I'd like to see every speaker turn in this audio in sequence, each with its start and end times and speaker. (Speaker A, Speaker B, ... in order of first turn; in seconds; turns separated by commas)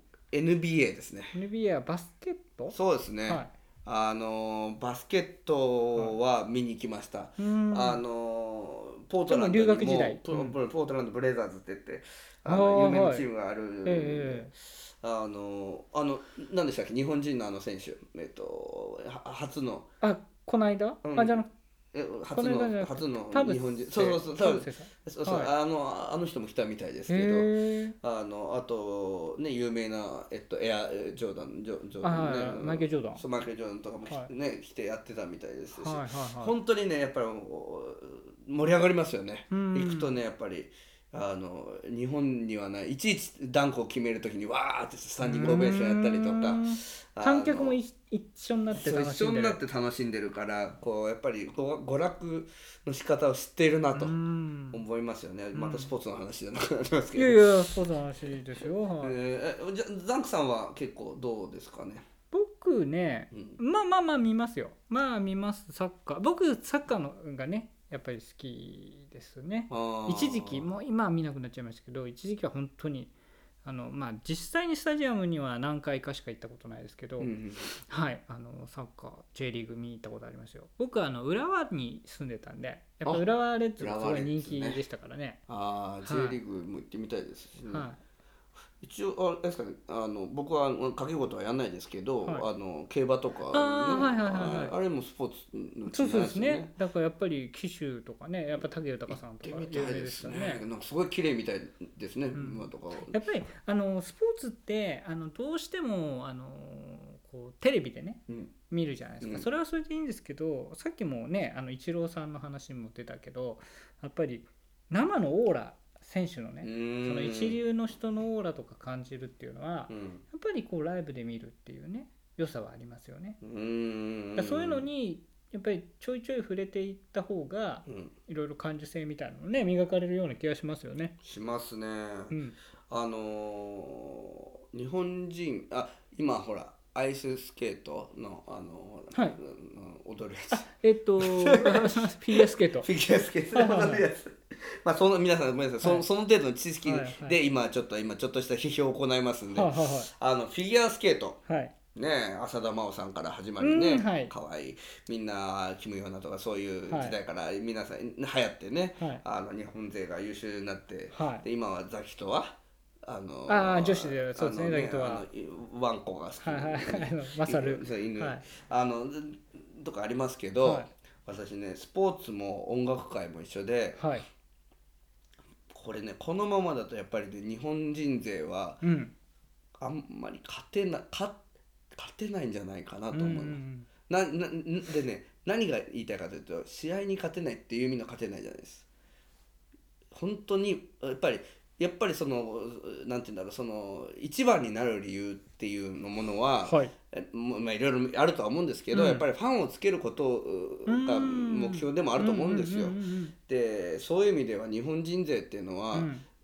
Speaker A: 0.3-1.4, Speaker B: 1.3-2.8, Speaker A: 2.7-19.9, Speaker B: 7.4-8.0, Speaker B: 9.3-10.6, Speaker B: 12.4-13.2, Speaker B: 13.8-14.5, Speaker B: 20.0-21.5, Speaker A: 21.0-47.8, Speaker B: 22.3-25.5, Speaker B: 27.1-27.9, Speaker B: 32.0-33.2, Speaker B: 35.8-36.5, Speaker B: 39.5-40.1, Speaker B: 45.2-49.6, Speaker A: 48.7-54.1, Speaker B: 53.9-54.8, Speaker A: 54.7-57.7, Speaker B: 55.5-55.9, Speaker B: 57.1-59.1, Speaker A: 59.0-62.0, Speaker B: 62.3-73.1, Speaker A: 63.3-63.6, Speaker A: 69.7-70.7, Speaker B: 73.6-85.4, Speaker A: 77.2-77.7, Speaker A: 83.8-84.8, Speaker A: 85.5-87.9, Speaker B: 86.0-86.4, Speaker B: 87.7-88.0, Speaker A: 88.8-96.7, Speaker B: 93.5-94.7, Speaker B: 95.9-100.6, Speaker A: 99.1-103.2, Speaker B: 102.3-123.4, Speaker A: 109.2-109.5, Speaker A: 116.6-117.6, Speaker A: 119.9-120.2, Speaker A: 123.4-124.9, Speaker B: 124.3-131.1, Speaker A: 127.9-128.1, Speaker A: 131.2-132.3, Speaker B: 132.3-132.6, Speaker A: 132.9-140.7, Speaker B: 140.5-142.9, Speaker A: 141.2-151.4, Speaker B: 143.5-144.0, Speaker B: 146.8-147.3, Speaker B: 149.5-150.1, Speaker B: 151.5-151.7, Speaker A: 151.9-174.0, Speaker B: 153.6-154.3, Speaker B: 156.9-157.2, Speaker B: 159.0-159.2, Speaker B: 161.1-161.4, Speaker B: 163.5-165.2, Speaker B: 166.4-168.4, Speaker B: 170.6-170.9, Speaker B: 174.0-174.2, Speaker A: 175.7-178.8, Speaker B: 178.8-179.1, Speaker A: 179.8-181.4, Speaker A: 181.9-188.8, Speaker B: 183.1-183.9, Speaker A: 190.1-206.1, Speaker B: 196.7-196.9, Speaker B: 198.9-199.2, Speaker B: 200.8-203.3, Speaker B: 205.9-206.2